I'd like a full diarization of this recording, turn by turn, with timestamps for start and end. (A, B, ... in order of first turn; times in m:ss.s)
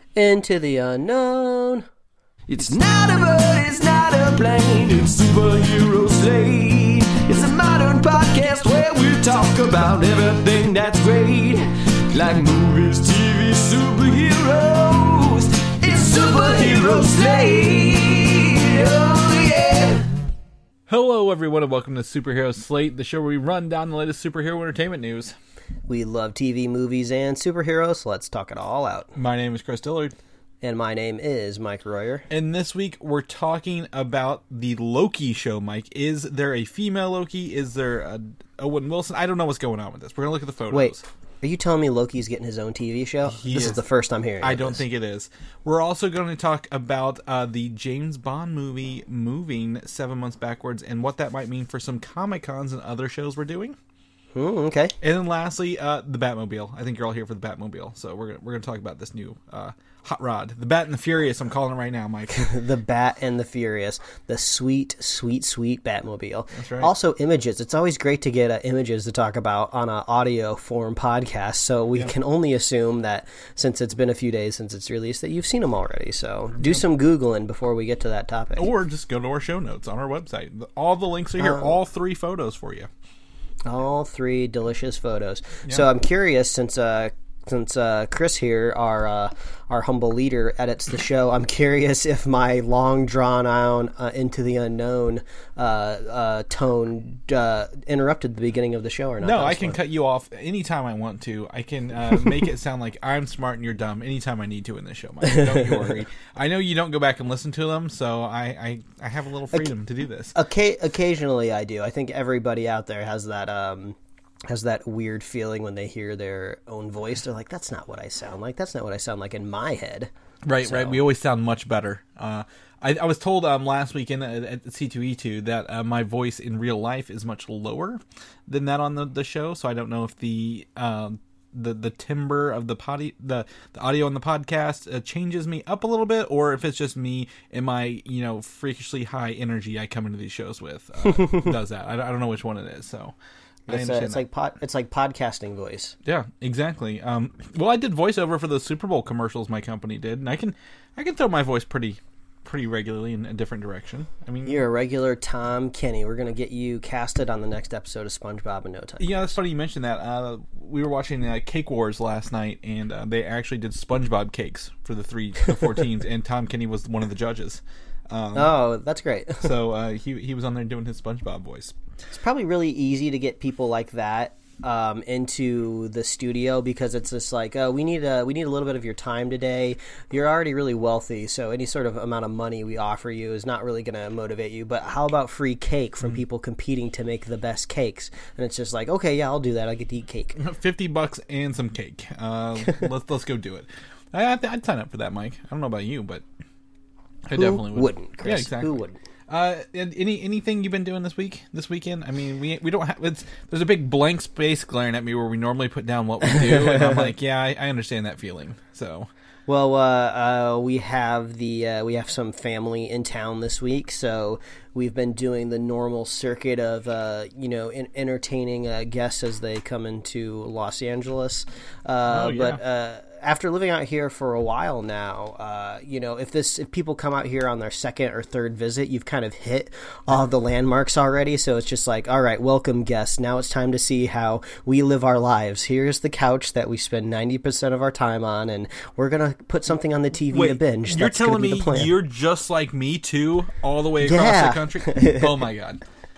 0:00.2-0:01.8 A
0:02.5-0:20.1 B
0:20.9-0:25.3 C
0:25.9-0:29.1 A
0:29.1-0:30.2 C
0:30.6-0:32.3 A
0:32.3-0:41.0 C
0:40.7-0:44.8 A
0:43.3-0:43.8 C
0:44.4-0:53.8 C
0:54.3-0:55.0 A
0:55.0-1:02.5 C
1:02.3-1:18.7 A
1:06.5-1:06.9 C
1:18.6-1:22.9 C
1:21.4-1:21.8 A
1:23.6-1:39.8 A
1:39.2-1:50.4 C
1:45.2-1:46.0 A
1:50.3-1:54.0 A
1:54.5-2:00.1 A
2:00.4-2:23.1 C
2:00.6-2:01.0 A
2:23.7-2:25.9 A
2:23.7-2:24.2 C
2:26.0-2:34.6 C
2:34.4-2:39.1 A
2:39.0-2:48.5 C
2:48.3-2:49.5 A
2:49.4-2:51.7 C
2:52.1-3:10.4 A
3:10.4-3:16.2 C
3:17.3-3:29.1 C
3:17.4-3:19.0 A
3:26.3-3:27.1 A
3:29.5-4:01.9 A
3:42.1-3:42.6 C
4:00.3-4:05.8 C
4:04.0-4:05.4 A